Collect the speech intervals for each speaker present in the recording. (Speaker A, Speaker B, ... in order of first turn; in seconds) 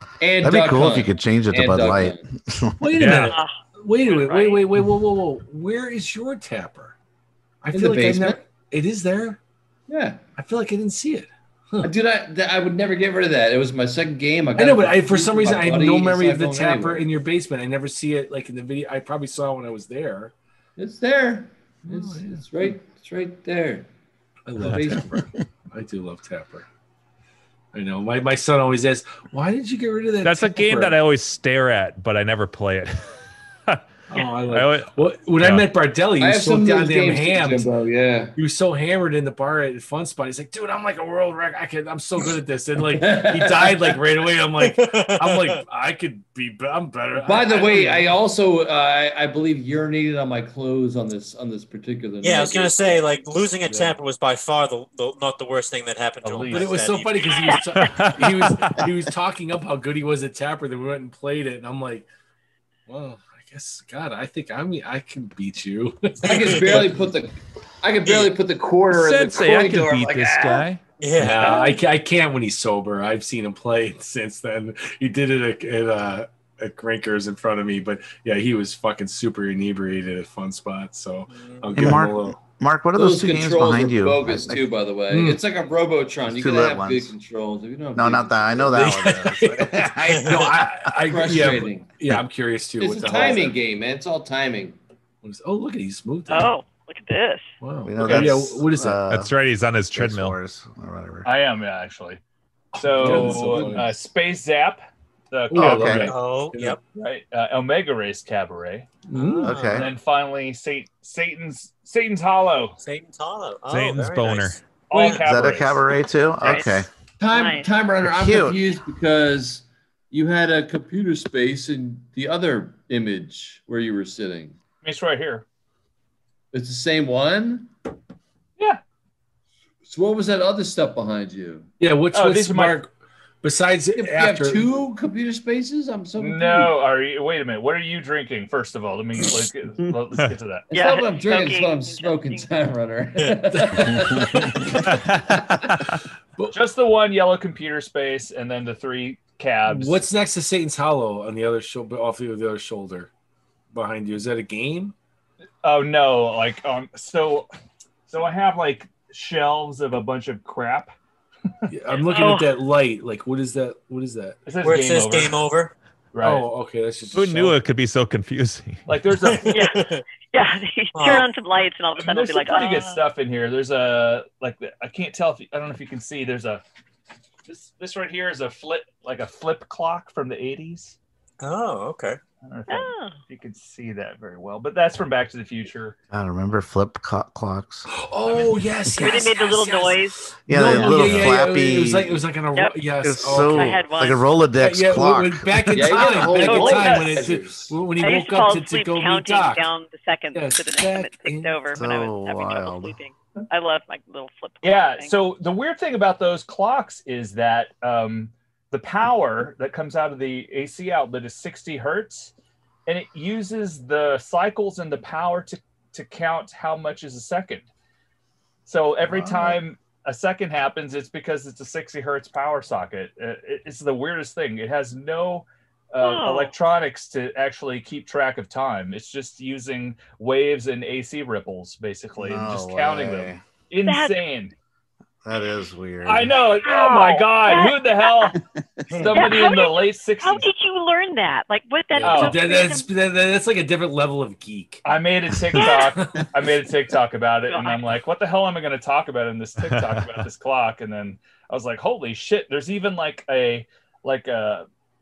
Speaker A: 0.2-2.3, 7.7-8.4, 9.9-10.3, 11.8-17.1, 20.8-23.9, 24.6-25.1, 36.2-38.4, 42.9-44.0, 47.2-53.0, 66.2-70.6, 82.9-88.9, 91.0-92.0, 92.8-94.8, 103.0-103.7, 117.2-124.6, 126.5-127.7, 129.8-131.7, 134.0-136.7, 140.7-145.0, 195.7-197.8
Speaker B: 0.4-3.0, 81.8-84.6, 86.3-87.1, 87.9-90.9, 97.8-99.4, 99.9-101.3, 105.6-106.1, 109.4-109.9, 115.0-116.9, 118.0-118.6, 143.9-144.5, 186.1-187.9, 190.5-192.2, 193.0-195.9, 201.7-202.9, 219.0-219.6, 232.2-233.4, 235.2-236.4
Speaker C: 2.8-6.9, 7.6-9.4, 10.4-11.9, 14.6-20.3, 21.9-22.3, 24.4-26.6, 27.7-30.9, 34.1-37.7, 38.4-48.1, 53.6-54.0, 56.5-62.1, 62.9-67.0, 71.2-82.4, 85.1-85.4, 88.7-93.6, 95.2-96.5, 97.6-99.0, 102.7-103.9, 105.5-106.8, 109.1-109.6, 131.8-132.9, 133.4-134.7, 143.5-146.6, 149.7-153.1, 153.7-154.9, 161.7-164.4, 166.2-167.6, 187.9-189.7, 190.5-193.9, 194.6-199.7, 200.3-201.8, 242.0-244.8, 245.6-246.3
Speaker D: 3.0-3.4, 30.2-33.1, 34.5-35.7, 57.8-58.9, 68.9-70.8, 99.1-100.4, 113.7-114.6, 144.9-145.8, 167.1-168.8, 249.6-250.3
Speaker E: 4.1-4.6, 56.2-56.8, 101.2-102.2, 102.7-106.2, 107.0-109.0, 109.6-112.8, 114.9-115.8, 124.8-125.4, 132.1-132.8, 136.2-140.7, 146.5-150.0, 155.6-157.5, 158.1-160.9, 164.4-165.4, 166.1-166.5, 168.9-169.7, 172.0-176.6, 177.5-181.0, 182.4-186.0, 196.7-197.2, 204.6-212.3, 212.9-217.7, 218.7-234.5, 236.0-240.4, 242.0-242.6, 244.8-254.7
Speaker F: 44.6-45.6, 52.2-57.6, 71.0-71.8, 81.3-81.7, 105.8-106.8, 109.1-109.9, 112.8-115.3, 164.6-165.7, 169.2-170.0, 170.9-171.3, 181.4-182.2, 238.9-239.3
Speaker G: 96.3-97.5, 116.4-116.8, 117.3-117.7, 140.7-142.5, 162.1-162.5, 169.4-173.0, 182.7-183.2, 189.0-190.2, 193.3-194.3, 196.4-197.0, 198.0-205.1, 226.0-226.6, 233.8-234.2, 236.6-238.4, 239.1-242.9, 245.6-245.9, 247.5-247.8